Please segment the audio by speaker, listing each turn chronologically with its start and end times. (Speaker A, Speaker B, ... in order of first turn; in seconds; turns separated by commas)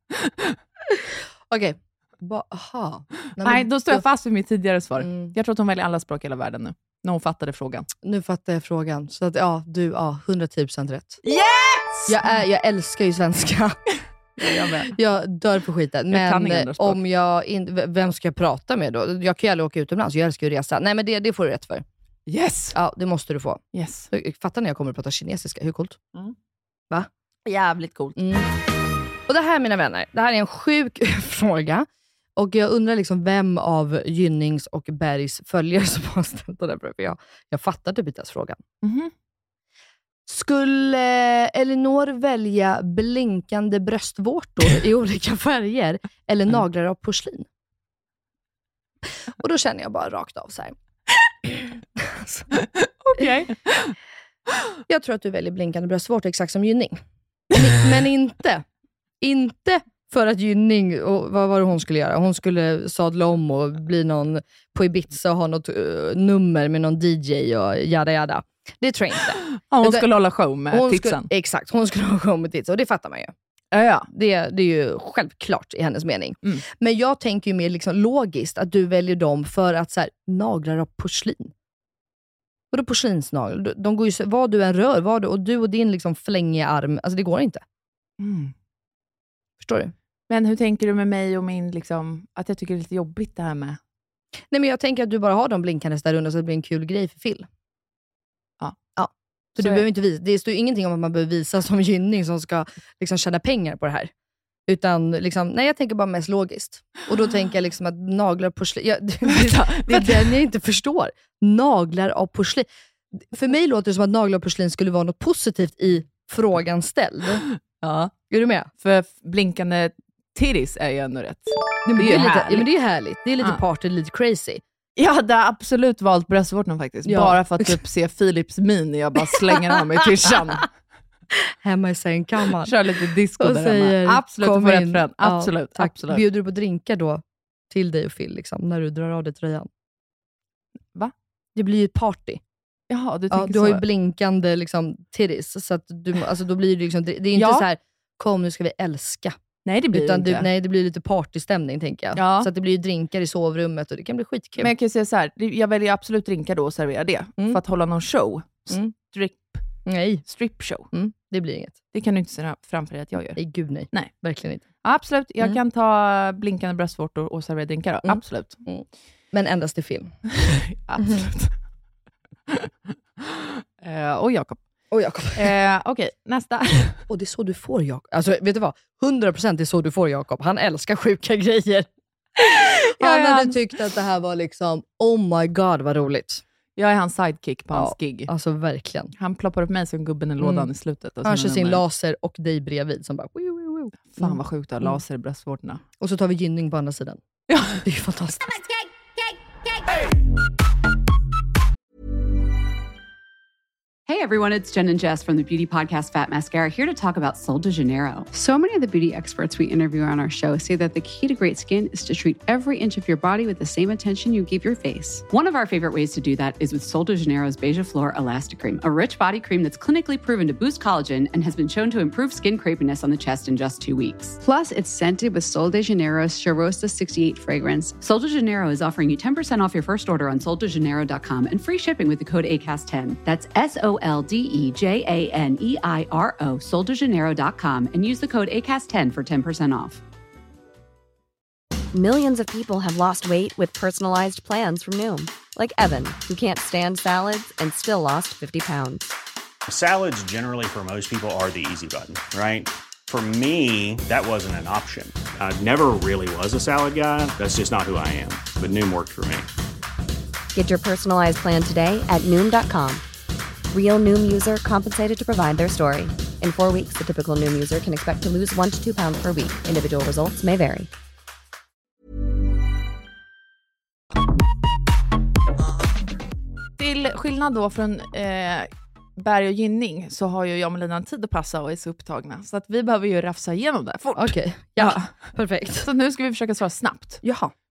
Speaker A: 0.9-4.0, Speaker B: 3.4-7.9, Speaker A: 5.0-5.3, Speaker A: 8.0-11.2, Speaker B: 11.2-12.2, Speaker A: 12.1-13.8, Speaker B: 14.4-14.9, Speaker A: 14.8-21.8, Speaker B: 16.1-17.0, Speaker B: 22.3-22.8, Speaker A: 22.7-26.0, Speaker B: 23.7-24.1, Speaker B: 27.4-28.2, Speaker A: 28.2-28.5, Speaker A: 29.3-38.6, Speaker B: 38.8-39.1, Speaker A: 40.3-47.5, Speaker A: 49.4-50.7, Speaker A: 51.4-52.6, Speaker B: 52.6-53.9, Speaker A: 54.9-57.0, Speaker A: 57.5-58.6, Speaker A: 59.2-70.0, Speaker B: 69.7-71.3, Speaker A: 70.7-73.3, Speaker B: 73.7-74.1, Speaker A: 74.1-81.5, Speaker A: 82.7-87.6, Speaker B: 88.2-88.5, Speaker A: 89.6-89.9, Speaker B: 90.3-93.8, Speaker A: 94.5-97.5, Speaker A: 99.0-104.1, Speaker B: 99.5-99.8, Speaker A: 104.7-117.4, Speaker B: 109.2-110.4, Speaker B: 117.8-118.1, Speaker A: 118.3-118.7, Speaker B: 118.8-122.7, Speaker A: 121.8-124.6, Speaker B: 125.0-130.7, Speaker A: 127.0-127.8, Speaker A: 129.3-130.3, Speaker A: 131.3-139.7, Speaker B: 132.6-136.2, Speaker A: 141.5-142.4, Speaker B: 142.9-143.8, Speaker A: 143.3-149.4, Speaker B: 147.3-147.6, Speaker B: 149.7-150.5, Speaker A: 149.9-154.7, Speaker B: 152.2-152.5, Speaker B: 154.6-159.6, Speaker A: 159.8-160.2, Speaker B: 160.3-160.9, Speaker A: 160.9-161.8, Speaker B: 161.9-163.4, Speaker A: 163.3-164.6, Speaker B: 164.8-168.6, Speaker A: 168.0-170.2, Speaker B: 170.3-171.5, Speaker A: 171.0-171.3, Speaker B: 173.8-174.6, Speaker A: 174.9-175.5, Speaker B: 175.3-177.0, Speaker A: 177.1-186.4, Speaker B: 182.6-183.6, Speaker B: 186.8-188.3, Speaker A: 187.7-189.1, Speaker B: 189.2-191.8, Speaker A: 190.4-190.7, Speaker A: 191.2-195.0, Speaker B: 194.1-195.8, Speaker A: 196.0-197.2, Speaker B: 197.5-197.8, Speaker A: 197.7-198.7, Speaker C: 204.1-208.3, Speaker D: 208.3-211.6, Speaker C: 211.6-224.4, Speaker D: 214.6-215.0, Speaker D: 224.4-225.8, Speaker C: 225.7-240.0, Speaker D: 226.8-227.7, Speaker E: 241.9-249.2, Speaker F: 249.7-259.5, Speaker E: 260.5-263.0, Speaker E: 263.7-270.9, Speaker B: 276.8-287.2, Speaker A: 284.1-285.9, Speaker A: 287.2-287.5